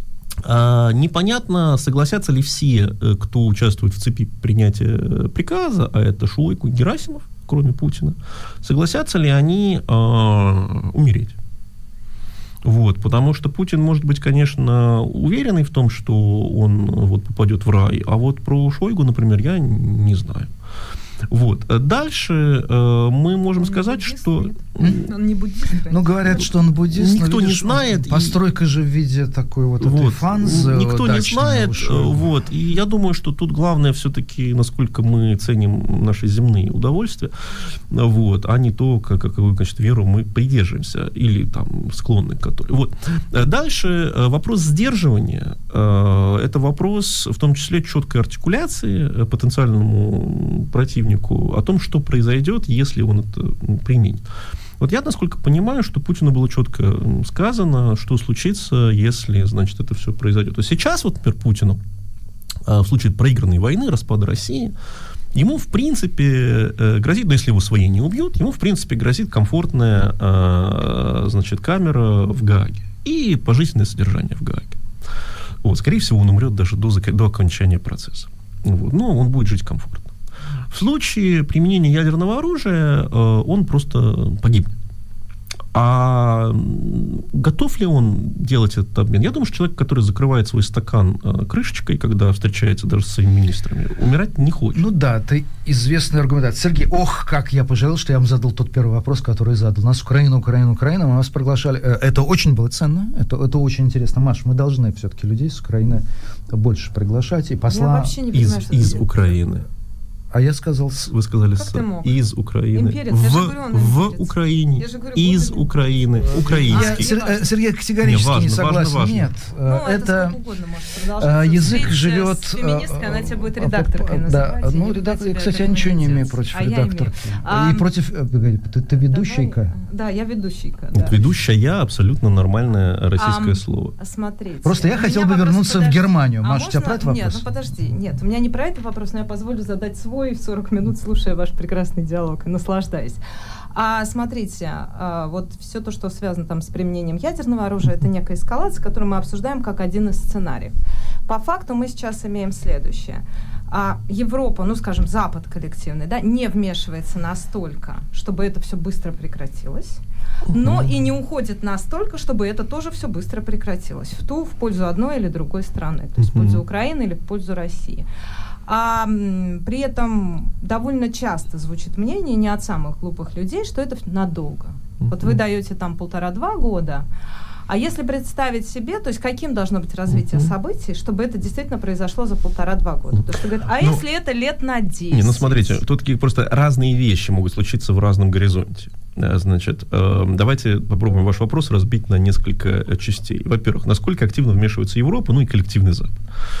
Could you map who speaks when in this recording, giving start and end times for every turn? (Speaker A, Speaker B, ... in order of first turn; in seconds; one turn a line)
Speaker A: 0.4-11.3
Speaker A: 12.6-20.5
Speaker A: 21.3-25.0
Speaker B: 23.5-26.5
Speaker C: 25.9-32.3
Speaker A: 26.9-28.4
Speaker A: 29.8-37.3
Speaker A: 37.9-54.2
Speaker A: 54.8-61.8
Speaker A: 62.7-64.7
Speaker A: 65.3-74.8
Speaker A: 75.6-80.1
Speaker A: 80.7-84.7
Speaker A: 85.7-94.8
Speaker C: 94.7-108.2
Speaker B: 107.6-109.4
Speaker A: 108.3-109.7
Speaker C: 110.3-111.1
Speaker A: 111.1-117.1
Speaker B: 111.5-112.2
Speaker B: 112.7-115.7
Speaker C: 116.3-120.4
Speaker B: 116.3-117.5
Speaker A: 118.0-119.3
Speaker B: 119.6-127.9
Speaker C: 121.2-129.7
Speaker B: 129.0-131.2
Speaker A: 130.9-133.9
Speaker B: 133.1-143.2
Speaker C: 134.6-137.4
Speaker B: 143.7-150.8
Speaker B: 151.3-168.1
Speaker A: 160.5-160.9
Speaker A: 166.2-166.6
Speaker B: 168.7-177.1
Speaker A: 175.1-175.3
Speaker B: 177.7-185.8
Speaker A: 180.2-180.5
Speaker A: 183.8-184.0
Speaker A: 185.1-196.2